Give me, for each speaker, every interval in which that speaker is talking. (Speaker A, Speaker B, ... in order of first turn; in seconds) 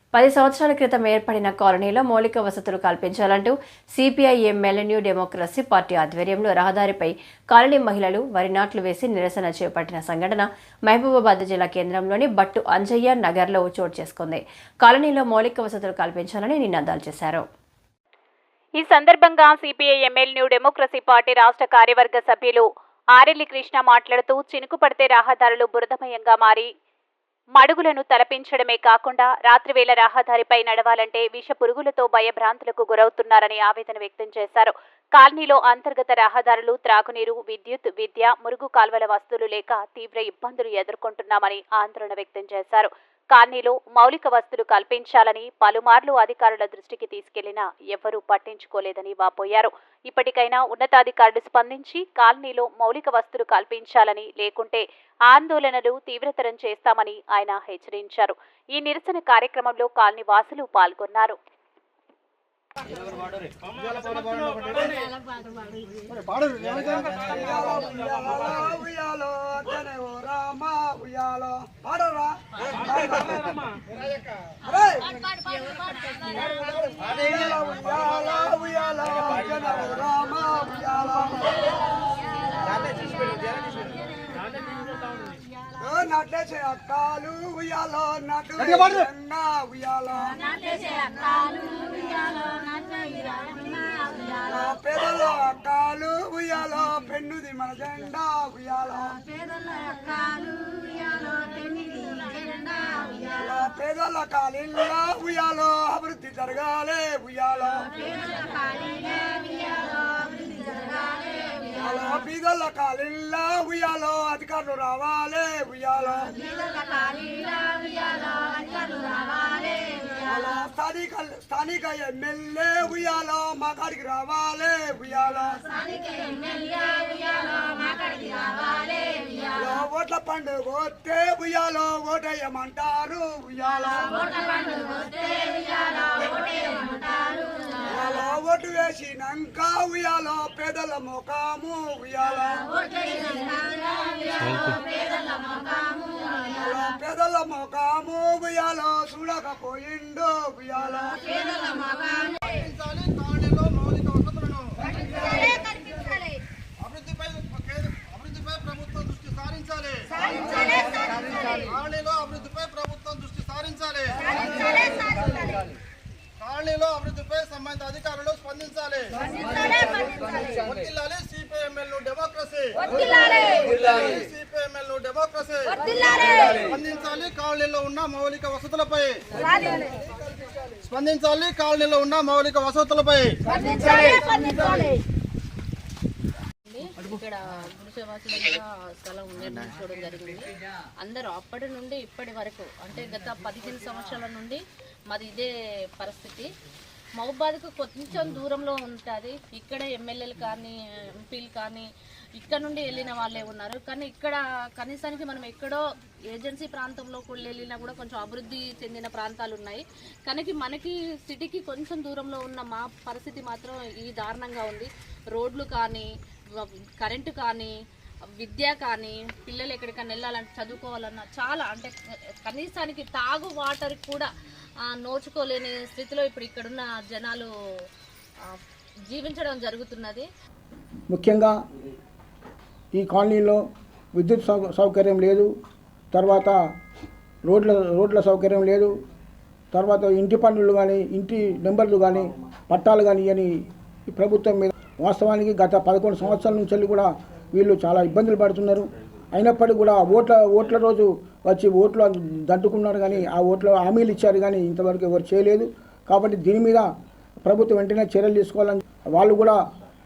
Speaker A: 0.1-17.5
Speaker B: 18.8-26.7, 27.6-61.4
Speaker C: 63.2-65.0, 66.1-68.7, 76.4-77.5, 82.8-83.7, 88.6-89.0, 152.2-156.2, 156.8-165.7, 166.4-179.8, 180.7-185.0
Speaker D: 67.3-73.5, 74.6-75.2, 77.1-81.7, 85.8-90.7, 94.5-99.2, 103.3-107.9, 111.8-116.3, 120.2-125.6, 129.5-134.3, 137.9-142.7, 146.5-151.4
Speaker E: 184.1-184.5, 186.7-196.5, 197.2-200.8, 201.3-217.7, 218.4-221.9, 222.4-224.3, 224.9-227.5, 229.1-230.3
Speaker F: 231.1-231.6, 232.9-233.6, 234.1-235.5, 236.1-236.6, 237.4-238.9, 239.7-243.5, 244.1-256.9, 257.4-259.6